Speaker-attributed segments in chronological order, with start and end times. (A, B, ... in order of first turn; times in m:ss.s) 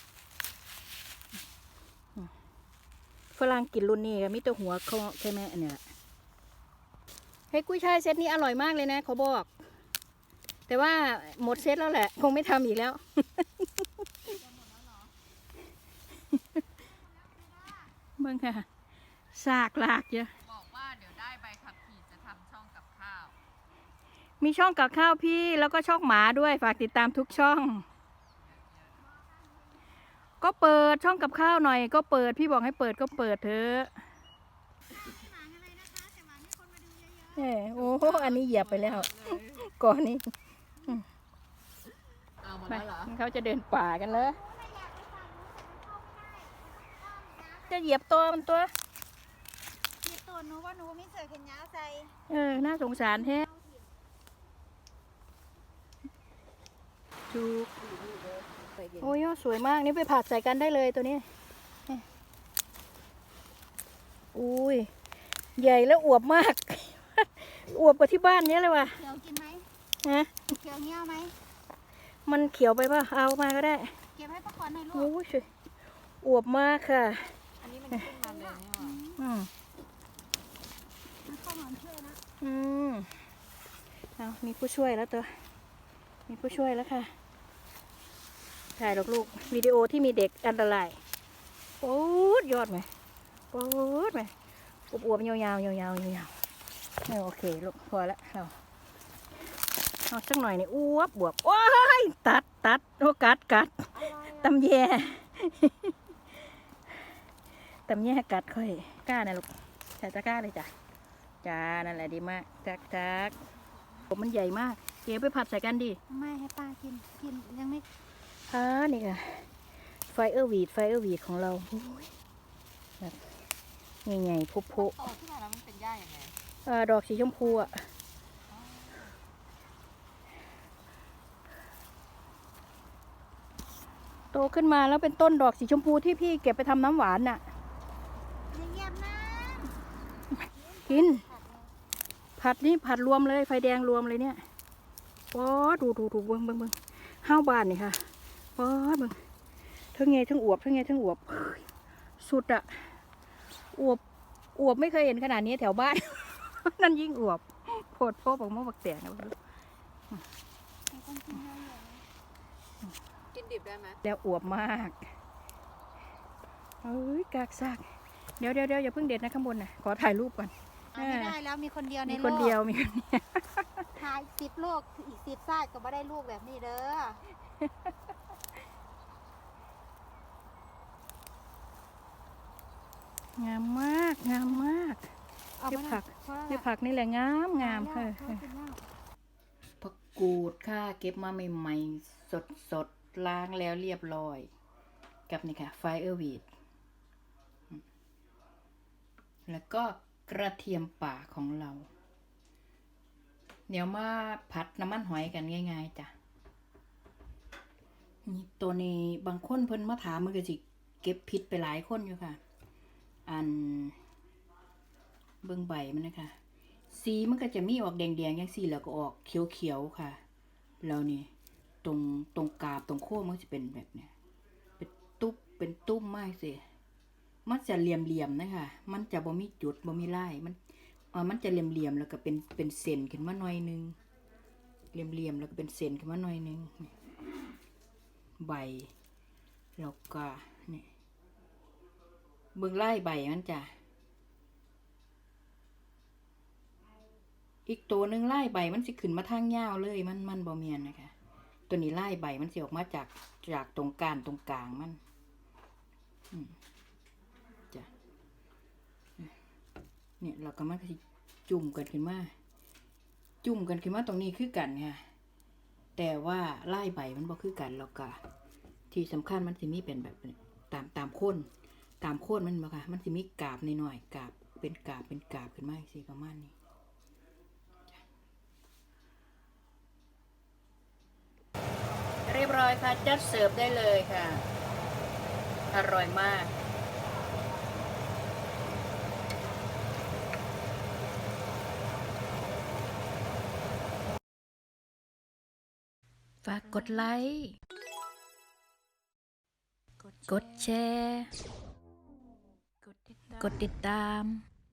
0:03.3-0:05.8 A
0:07.5-0:09.5 A
0:10.7-0:14.0 A
0:14.5-0:15.1 B
0:16.8-0:17.9 B
0:18.2-0:18.6 A
0:19.3-0:20.3 A
0:20.4-0:23.3 C
0:24.4-0:27.8 A
0:28.4-0:29.0 C
0:29.0-0:29.8 B
0:30.4-0:33.9 A
0:34.9-0:37.5 B
0:37.4-0:40.3 A
0:37.8-0:39.6 C
0:42.4-0:43.1 C
0:42.7-0:44.4 A
0:44.1-0:47.8 B
0:47.7-0:48.7 A
0:50.0-0:52.2 B
0:52.3-0:53.5 A
0:53.3-0:53.8 B
0:57.3-0:57.7 A
0:57.8-0:59.1 C
0:59.0-1:01.3 A
1:04.3-1:04.9 A
1:05.6-1:09.0 A
1:08.8-1:09.7 B
1:10.0-1:10.5 A
1:10.5-1:11.3 B
1:12.2-1:14.0 A
1:14.2-1:15.1 B
1:14.9-1:15.5 A
1:16.2-1:17.4 A
1:17.6-1:19.0 C
1:18.2-1:19.2 B
1:19.1-1:19.5 A
1:21.2-1:22.2 B
1:22.4-1:23.1 A
1:24.2-1:25.3 A
1:26.3-1:27.1 A
1:28.8-1:31.0 A
1:29.0-1:29.5 B
1:31.8-1:32.9 A
1:33.5-1:34.3 A
1:34.9-1:36.3 A
1:37.0-1:38.5 A
1:40.1-1:45.9 A
1:47.9-1:50.7 A
1:51.4-1:53.4 A
1:54.1-1:56.0 A
1:56.1-1:57.8 B
1:58.5-1:59.5 A
2:00.0-2:02.1 A
2:04.0-2:05.0 A
2:04.7-2:06.3 C
2:06.6-2:07.8 A
2:08.5-2:09.1 C
2:14.3-2:17.4 A
2:18.5-2:19.7 B
2:20.5-2:21.7 B
2:20.8-2:21.2 A
2:22.4-2:24.4 A
2:25.3-2:29.2 A
2:29.9-2:31.6 A
2:32.2-2:33.0 A
2:33.7-2:34.0 A
2:34.6-2:39.3 A
2:40.9-2:42.0 B
2:43.3-2:44.0 C
2:44.0-2:45.0 A
2:46.8-2:47.8 A
2:48.4-2:51.4 A
2:50.9-2:52.6 B
2:52.0-2:53.9 A
2:54.0-2:57.2 B
3:03.4-3:05.1 A
3:05.6-3:06.6 B
3:05.7-3:08.4 A
3:07.6-3:08.8 B
3:09.8-3:14.5 A
3:15.3-3:16.5 A
3:19.5-3:21.9 A
3:23.7-3:26.1 A
3:28.2-3:32.4 A
3:33.2-3:34.0 A
3:35.4-3:36.4 A
3:36.9-3:40.2 A
3:40.8-3:41.3 A
3:41.8-3:44.1 A
3:44.8-3:46.6 A
3:47.4-3:50.6 A
3:51.1-3:54.0 A
3:54.9-3:56.9 A
3:58.4-3:58.9 A
3:59.8-4:00.9 A
4:02.5-4:03.7 A
4:07.6-4:11.1 A
4:11.7-4:15.0 A
4:20.2-4:22.3 A
4:23.4-4:25.1 A
4:26.0-4:28.2 A
4:28.9-4:31.5 A
4:32.0-4:36.5 A
4:42.2-4:44.4 A
4:45.7-4:46.5 A
4:56.4-4:57.6 A
5:00.0-5:00.3 C
5:00.2-5:01.3 A
5:03.3-5:04.4 A